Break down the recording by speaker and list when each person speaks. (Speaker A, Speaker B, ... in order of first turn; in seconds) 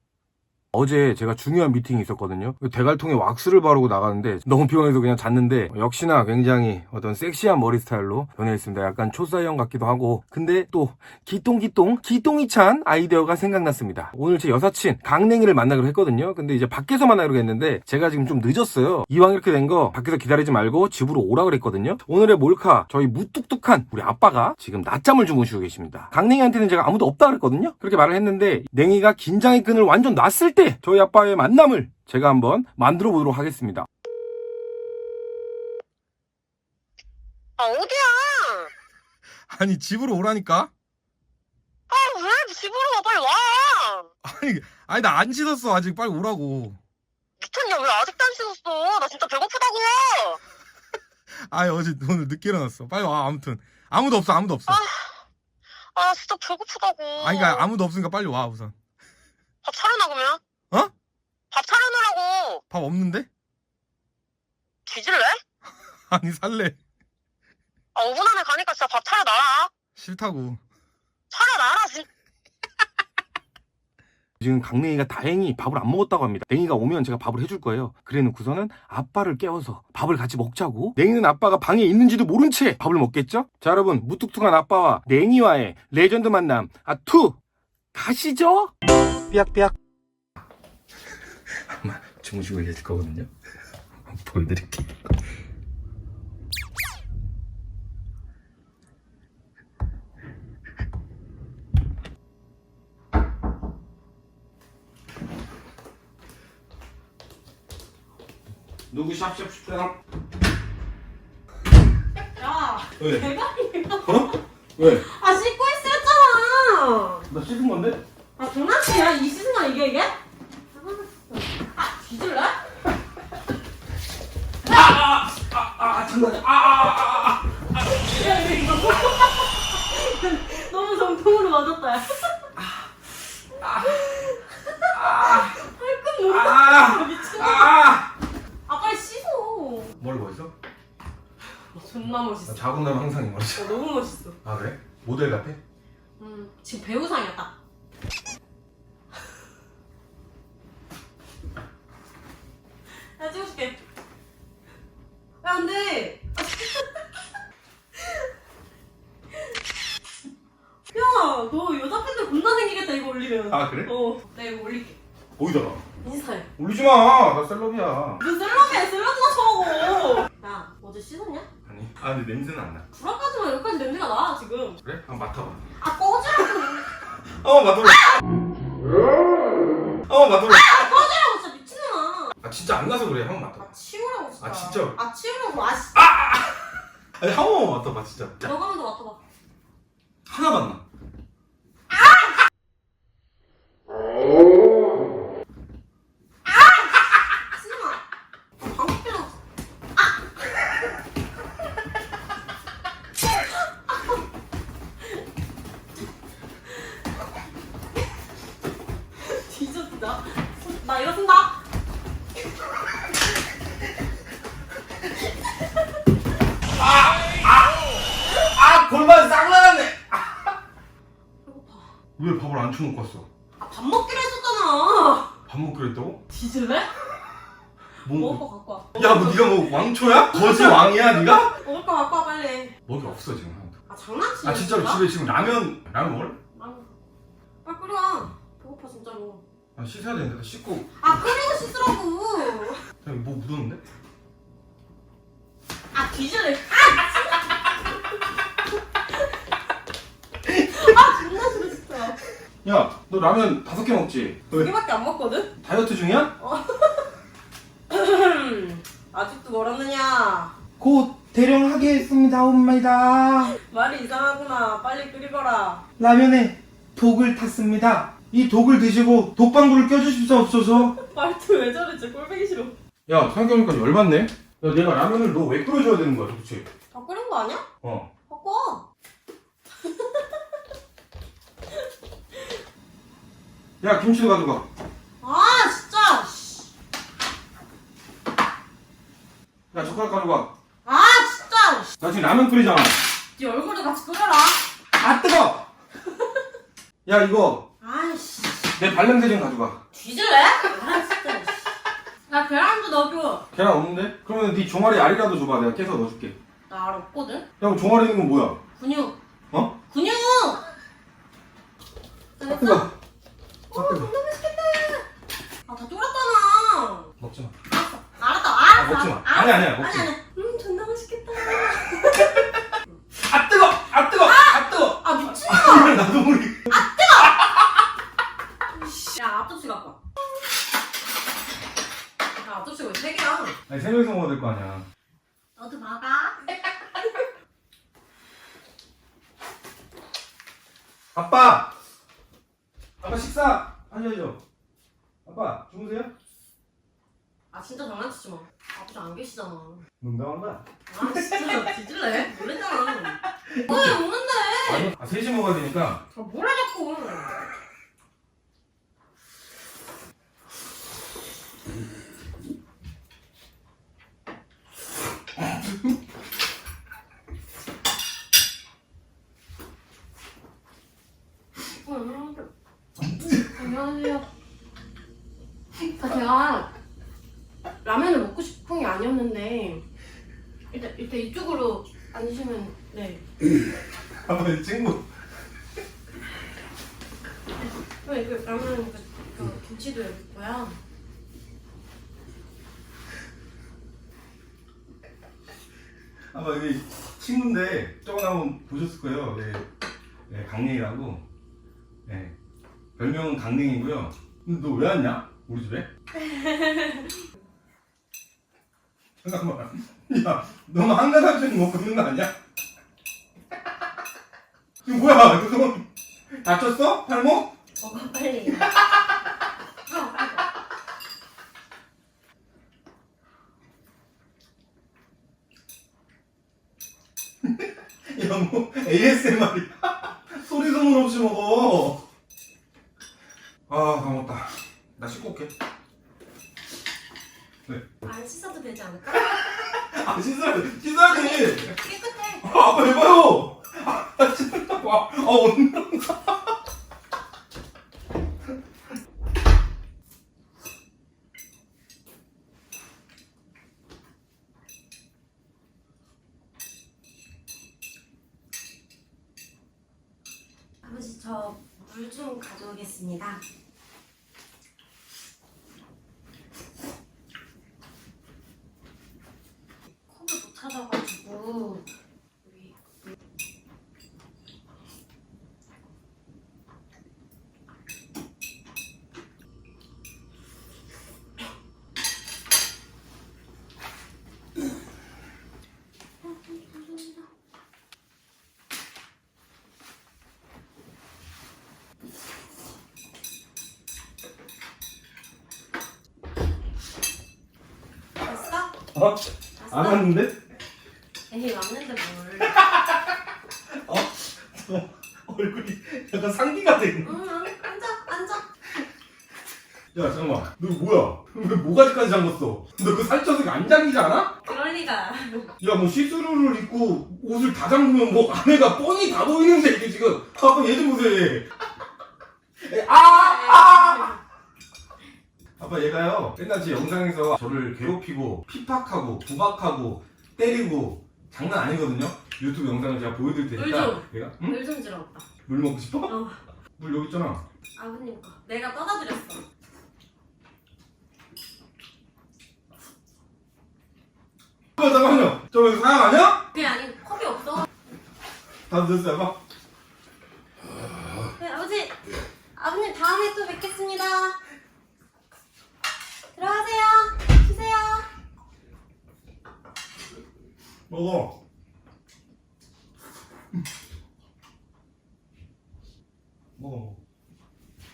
Speaker A: 0.7-33.9, 39.5-40.7, 44.2-46.8, 51.4-54.8, 57.2-58.7, 62.7-63.3, 66.1-66.8, 70.0-70.6, 74.4-87.4, 87.9-88.7, 89.3-89.7, 91.5-93.3, 94.0-94.9, 108.9-109.9, 113.0-113.3, 114.0-115.0, 117.3-118.0, 124.6-127.4, 128.2-128.6, 133.6-134.0, 134.9-135.6, 136.2-138.1, 140.0-140.5, 142.4-143.7, 144.4-145.6, 163.5-163.9, 165.4-165.8, 166.6-168.2, 171.6-172.8, 174.8-175.6, 177.4-178.1, 180.1-181.0, 182.4-183.6, 184.4-185.0, 185.9-186.7, 187.2-188.4, 190.3-190.8, 216.8-220.6, 222.2-223.3, 225.5-226.2, 228.0-228.4, 228.9-231.6, 232.9-233.7, 234.4-236.4, 239.8-241.3, 243.0-243.8, 250.5-250.9, 252.6-254.7, 255.6-256.3, 260.8-263.5, 266.0-270.9, 273.1-276.6, 277.8-278.1, 283.8-284.6, 289.7-290.5, 292.0-293.0, 294.9-295.7, 297.0-297.7, 298.8-299.8, 303.5-306.3, 307.6-308.6, 309.5-309.8, 312.4-312.9, 313.7-314.1, 317.2-317.5, 318.8-320.1, 323.2-326.8, 333.7-334.9, 341.1-341.7, 343.0-344.4, 345.2-346.1, 350.0-351.6, 353.4-354.0, 354.6-356.0, 384.1-385.1, 396.3-399.6, 400.3-401.2, 402.1-402.3, 403.0-405.9, 409.2-412.3, 414.8-415.9, 416.4-417.5, 418.5-418.9, 427.4-432.0, 433.7-435.5, 439.3-441.8, 442.4-446.5, 498.9-500.4, 502.4-503.1, 503.7-507.2, 509.9-514.3, 515.6-521.5, 522.6-524.1, 525.6-534.6, 535.5-536.1, 536.8-537.4, 544.8-546.5, 548.7-549.4, 560.9-561.4, 566.6-567.0
Speaker B: 37.6-38.7, 41.9-44.1, 47.4-50.4, 54.7-55.1, 55.9-57.7, 59.6-60.4, 61.5-62.6, 64.8-65.4, 67.9-69.7, 71.3-72.0, 112.3-114.3, 114.9-117.2, 118.4-120.1, 120.7-122.5, 127.9-132.5, 133.6-137.8, 138.7-139.9, 141.7-142.6, 143.5-144.3, 146.2-147.5, 153.1-153.8, 155.4-157.2, 158.0-158.2, 160.9-165.0, 166.0-166.5, 168.2-171.5, 172.9-174.8, 175.8-176.8, 180.5-182.3, 183.6-186.0, 188.4-189.2, 191.9-192.3, 196.5-198.0, 198.6-199.3, 209.2-211.6, 221.4-221.9, 223.6-225.3, 226.3-226.9, 228.0-232.7, 233.9-235.0, 236.5-236.9, 237.6-239.4, 241.0-242.8, 245.9-247.7, 250.7-252.2, 254.5-255.5, 256.4-257.1, 257.9-260.5, 263.6-265.8, 270.9-272.7, 276.9-277.6, 278.3-278.8, 279.8-280.2, 285.2-286.7, 290.8-291.9, 293.4-294.6, 297.8-298.7, 299.9-301.7, 302.3-303.4, 306.7-307.4, 308.8-309.2, 309.9-310.6, 312.4-312.9, 313.7-315.0, 315.7-317.1, 317.7-322.4, 324.2-326.1, 326.7-327.5, 328.7-330.0, 332.4-333.6, 335.6-336.5, 347.5-349.8, 350.9-354.9, 356.1-357.4, 371.8-372.5, 373.4-374.2, 375.9-376.7, 377.8-379.8, 380.7-383.2, 388.0-390.8, 406.3-407.0, 417.8-418.7, 419.9-420.4, 438.0-439.4, 441.0-442.5, 460.8-463.4, 470.1-471.8, 472.4-472.7, 486.5-487.1, 498.2-498.7, 499.6-500.1, 501.3-502.6, 507.0-508.4, 514.4-515.5, 523.0-524.2, 533.5-535.2, 536.1-536.4, 537.8-539.4, 546.5-547.7, 551.4-552.0, 552.5-554.4, 556.3-558.1